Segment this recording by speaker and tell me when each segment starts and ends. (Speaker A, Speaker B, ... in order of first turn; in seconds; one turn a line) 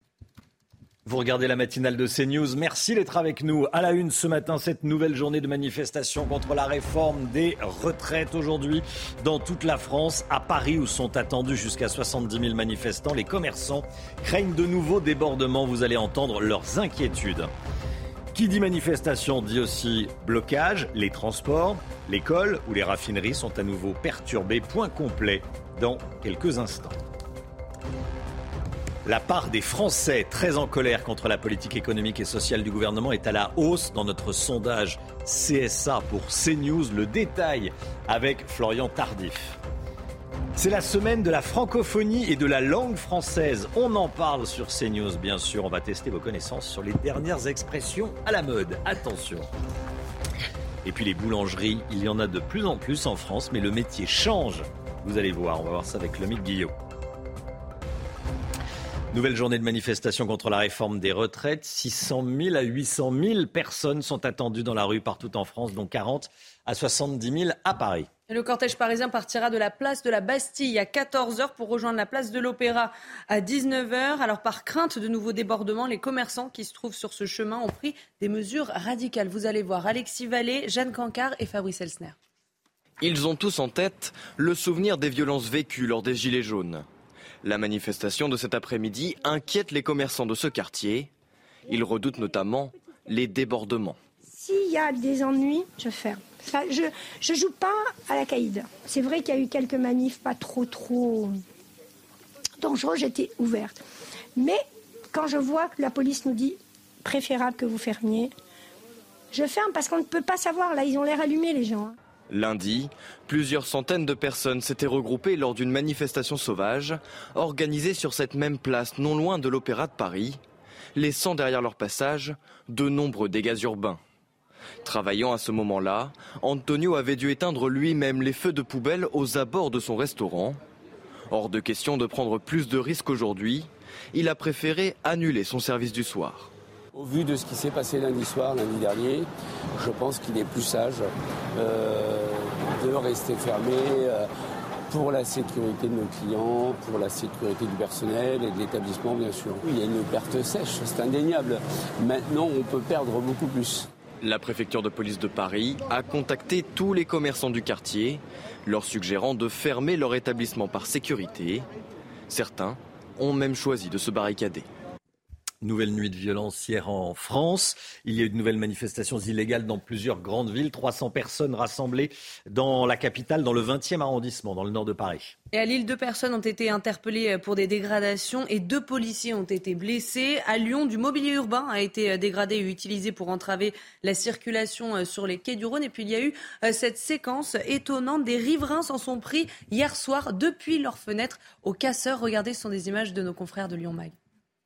Speaker A: 1.1-17.5
Speaker A: 18.3-27.0
Speaker A: 29.1-39.6
Speaker A: 40.6-49.5
Speaker A: 50.8-56.8
Speaker A: 59.1-68.1
Speaker B: 68.3-82.2
Speaker C: 83.0-86.9
Speaker C: 87.4-91.1
Speaker C: 91.7-94.0
Speaker D: 94.3-101.4
Speaker D: 102.6-103.8
Speaker D: 104.4-108.3
Speaker D: 109.3-112.0
Speaker C: 112.3-120.4
Speaker C: 121.0-124.0
Speaker C: 124.8-130.6
Speaker C: 131.3-136.5
Speaker E: 136.9-144.2
Speaker E: 144.9-153.9
Speaker C: 154.2-161.7
Speaker C: 162.3-164.7
Speaker A: 165.6-175.3
Speaker B: 175.5-194.1